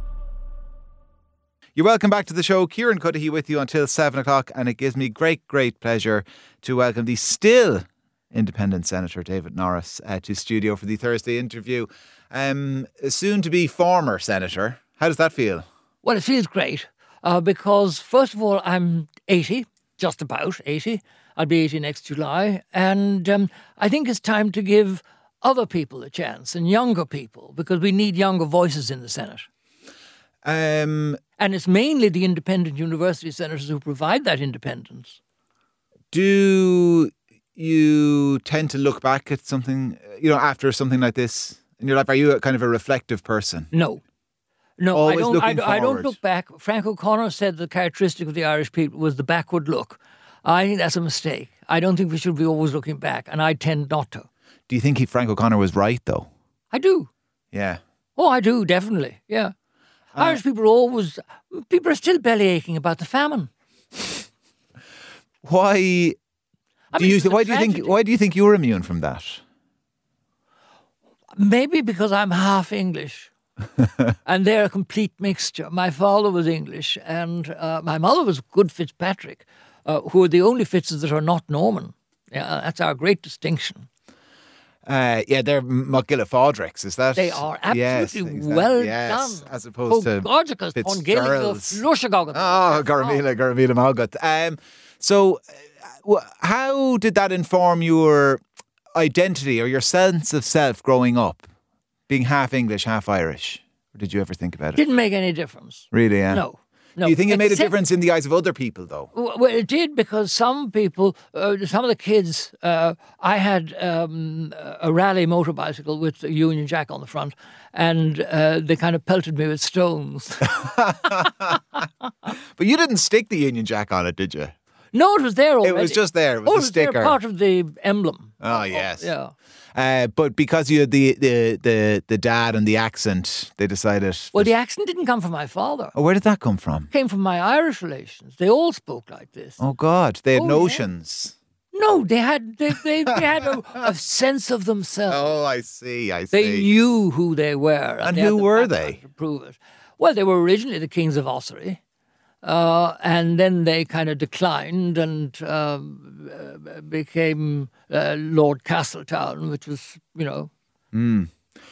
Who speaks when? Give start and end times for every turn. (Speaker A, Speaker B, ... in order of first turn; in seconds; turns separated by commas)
Speaker A: 1.8-15.7, Speaker B: 16.0-29.5, Speaker A: 30.4-31.2, Speaker B: 31.4-35.2, Speaker A: 36.1-43.7, Speaker B: 43.7-44.0, Speaker B: 44.8-54.3, Speaker A: 44.9-46.2, Speaker A: 54.7-56.3, Speaker B: 56.7-57.1, Speaker A: 57.5-57.8, Speaker B: 58.2-59.5, Speaker A: 60.1-60.4, Speaker B: 60.2-63.5, Speaker A: 65.4-66.2, Speaker B: 66.9-68.0, Speaker A: 67.0-69.4, Speaker B: 71.4-73.3, Speaker B: 74.2-83.9, Speaker A: 84.9-91.8, Speaker B: 87.2-93.2, Speaker A: 92.3-95.4, Speaker A: 96.0-98.4, Speaker A: 99.0-101.5, Speaker A: 102.1-104.8, Speaker B: 104.8-107.8, Speaker A: 105.9-106.4, Speaker A: 107.0-109.1, Speaker B: 109.1-120.7, Speaker A: 120.4-121.6, Speaker A: 122.6-124.5, Speaker B: 124.9-129.3, Speaker A: 125.6-127.2, Speaker A: 128.4-129.1, Speaker A: 129.8-134.5, Speaker B: 134.3-135.9, Speaker A: 135.9-136.9, Speaker B: 136.9-139.6, Speaker A: 139.6-141.3, Speaker B: 140.3-140.9, Speaker B: 141.7-145.3, Speaker A: 145.1-146.7, Speaker B: 146.3-151.8, Speaker A: 148.0-149.0, Speaker B: 152.4-160.5, Speaker A: 160.9-161.3